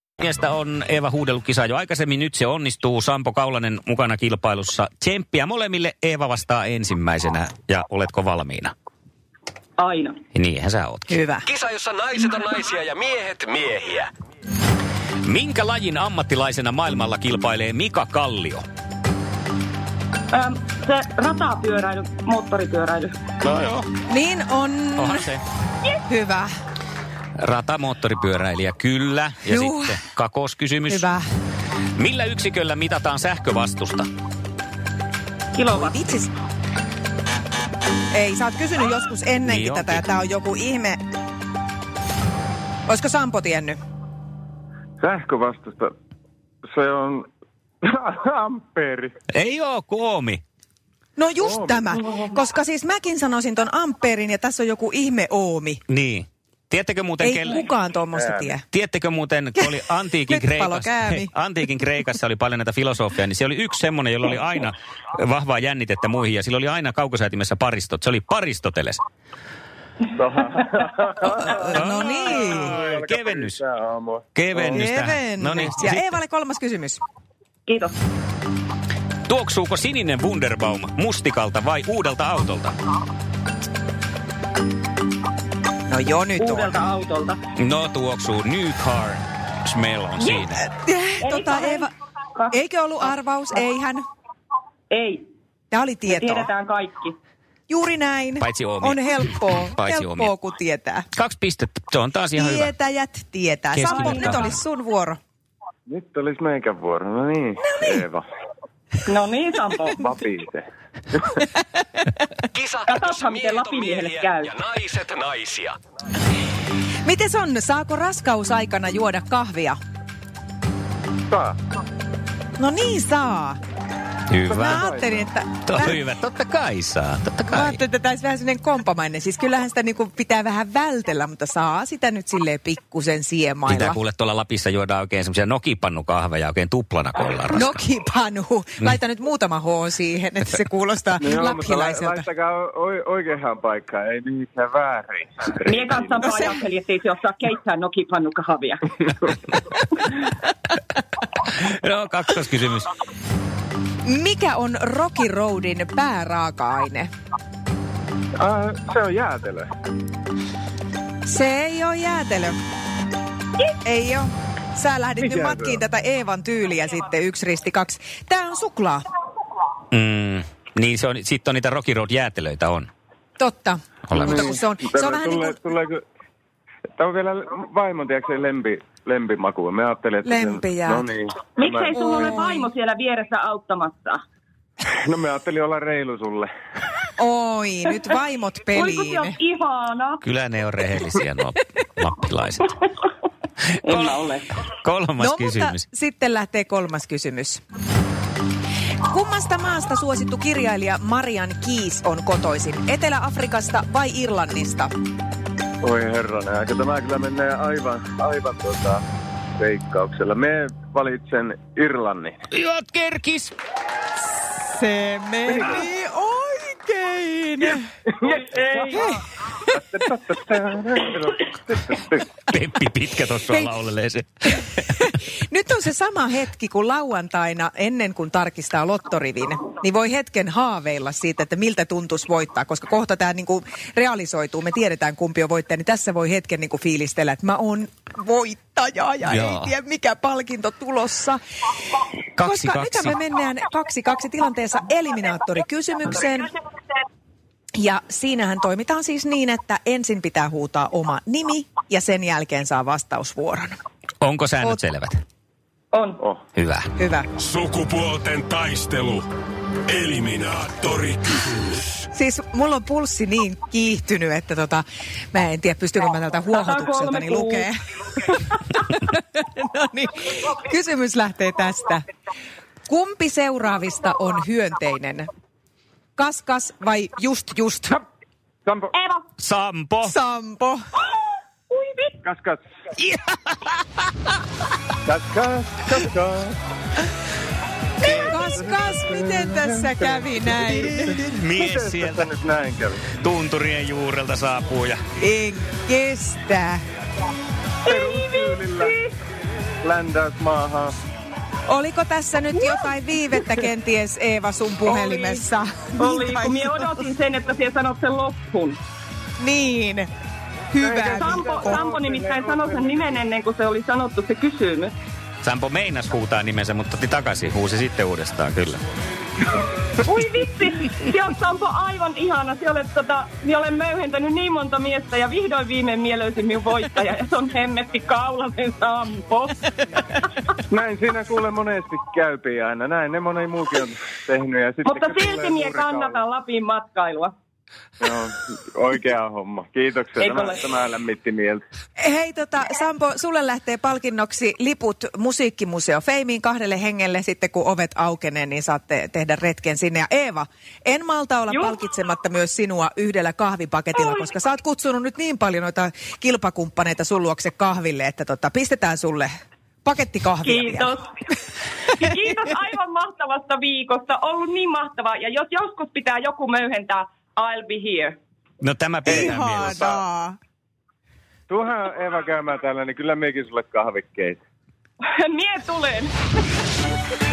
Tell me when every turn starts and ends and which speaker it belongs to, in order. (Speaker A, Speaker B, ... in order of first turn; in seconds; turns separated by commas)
Speaker A: 0.2-8.7, Speaker B: 9.8-10.2, Speaker A: 10.3-11.1, Speaker C: 11.1-11.5, Speaker D: 11.5-14.1, Speaker A: 15.2-18.6, Speaker B: 20.3-23.1, Speaker A: 23.4-23.9, Speaker C: 24.1-25.3, Speaker A: 25.0-25.4, Speaker C: 26.1-26.5, Speaker A: 27.4-31.1, Speaker C: 29.5-30.0, Speaker C: 30.9-31.2, Speaker A: 31.9-34.1, Speaker B: 35.5-36.1, Speaker C: 35.7-36.3, Speaker C: 38.1-41.0, Speaker A: 39.4-40.0, Speaker C: 42.9-43.8, Speaker E: 45.0-45.9, Speaker E: 46.6-47.3, Speaker E: 47.8-49.1, Speaker A: 49.3-50.4, Speaker C: 51.2-55.8, Speaker E: 51.4-51.9, Speaker A: 55.9-57.6, Speaker C: 57.2-58.6, Speaker E: 58.1-58.5, Speaker A: 58.7-69.0, Speaker C: 60.3-61.3, Speaker E: 70.1-71.6, Speaker C: 71.4-72.8, Speaker A: 71.7-73.6, Speaker E: 72.3-74.9, Speaker A: 74.3-76.2, Speaker C: 74.7-77.0, Speaker B: 77.7-77.9, Speaker A: 79.3-82.7, Speaker C: 85.9-86.8, Speaker B: 86.4-87.4, Speaker A: 87.5-90.6, Speaker B: 90.2-90.4, Speaker C: 90.6-91.9, Speaker B: 91.2-92.6, Speaker C: 92.5-94.0, Speaker B: 94.9-95.2, Speaker C: 95.7-96.5, Speaker B: 96.1-97.2, Speaker C: 97.7-101.0, Speaker A: 98.4-100.3, Speaker A: 101.1-102.7, Speaker C: 102.3-105.2, Speaker A: 103.7-104.6, Speaker B: 103.9-104.3, Speaker E: 105.9-108.2, Speaker C: 107.7-108.0, Speaker B: 109.1-110.0, Speaker E: 109.9-110.6, Speaker D: 112.5-115.8, Speaker B: 112.8-114.5, Speaker C: 117.0-119.8, Speaker E: 121.3-121.6, Speaker C: 122.6-123.6, Speaker A: 124.3-124.8, Speaker E: 124.4-125.3, Speaker C: 124.6-126.0, Speaker A: 125.7-127.8, Speaker C: 127.5-134.0, Speaker A: 133.7-137.7, Speaker C: 137.5-142.2, Speaker E: 141.2-146.5, Speaker B: 145.6-148.8, Speaker C: 146.2-146.6, Speaker A: 151.5-152.9, Speaker C: 154.1-157.1, Speaker E: 158.4-159.7, Speaker C: 161.2-162.6, Speaker C: 163.8-169.0, Speaker E: 165.2-165.8, Speaker A: 169.9-172.9, Speaker C: 173.4-175.6, Speaker A: 174.1-174.5, Speaker E: 174.1-176.0, Speaker E: 177.0-182.3, Speaker C: 180.2-181.1, Speaker B: 181.6-184.2, Speaker C: 181.9-182.7, Speaker E: 185.0-186.5, Speaker C: 187.2-189.4, Speaker B: 188.7-190.2, Speaker A: 190.2-192.7, Speaker A: 193.8-195.8, Speaker B: 193.8-194.6, Speaker C: 195.2-197.6, Speaker C: 199.1-204.9, Speaker E: 205.8-209.0, Speaker E: 209.6-212.3, Speaker A: 212.5-213.5, Speaker C: 214.3-217.8, Speaker E: 218.2-219.2, Speaker C: 218.9-219.2, Speaker E: 219.7-222.3, Speaker A: 222.5-224.6, Speaker C: 224.7-241.4, Speaker A: 239.3-239.7, Speaker A: 242.4-243.2, Speaker C: 242.4-246.5, Speaker C: 247.8-253.8, Speaker A: 254.2-255.2, Speaker B: 255.9-256.2, Speaker A: 256.5-256.9, Speaker C: 257.0-257.3, Speaker F: 257.4-259.3, Speaker F: 259.9-261.9, Speaker C: 262.1-267.7, Speaker B: 266.6-267.7, Speaker C: 268.6-272.0, Speaker C: 272.9-275.3, Speaker C: 276.2-278.0, Speaker E: 278.6-279.0, Speaker B: 278.9-279.2, Speaker A: 279.4-280.1, Speaker C: 280.0-280.8, Speaker B: 281.7-282.1, Speaker E: 282.2-282.6, Speaker A: 283.0-283.6, Speaker E: 285.1-286.6, Speaker C: 288.0-291.2, Speaker E: 288.0-293.0, Speaker A: 291.3-292.2, Speaker A: 293.2-295.0, Speaker C: 295.2-296.8, Speaker E: 297.8-298.9, Speaker B: 297.9-299.0, Speaker E: 299.8-300.9, Speaker C: 301.7-307.0, Speaker B: 305.9-308.8, Speaker C: 309.4-310.1, Speaker C: 310.7-311.8, Speaker E: 310.8-313.2, Speaker B: 311.1-314.9, Speaker A: 315.4-318.8, Speaker B: 320.0-329.6, Speaker E: 330.7-336.2, Speaker B: 334.8-337.3, Speaker E: 338.0-341.6, Speaker B: 340.2-340.6, Speaker C: 342.0-359.3, Speaker B: 351.5-351.8, Speaker C: 359.8-360.9, Speaker B: 360.4-361.1, Speaker B: 362.0-368.2, Speaker A: 368.6-369.8, Speaker C: 369.0-370.4, Speaker E: 369.1-370.0, Speaker E: 371.5-374.4, Speaker B: 375.1-376.1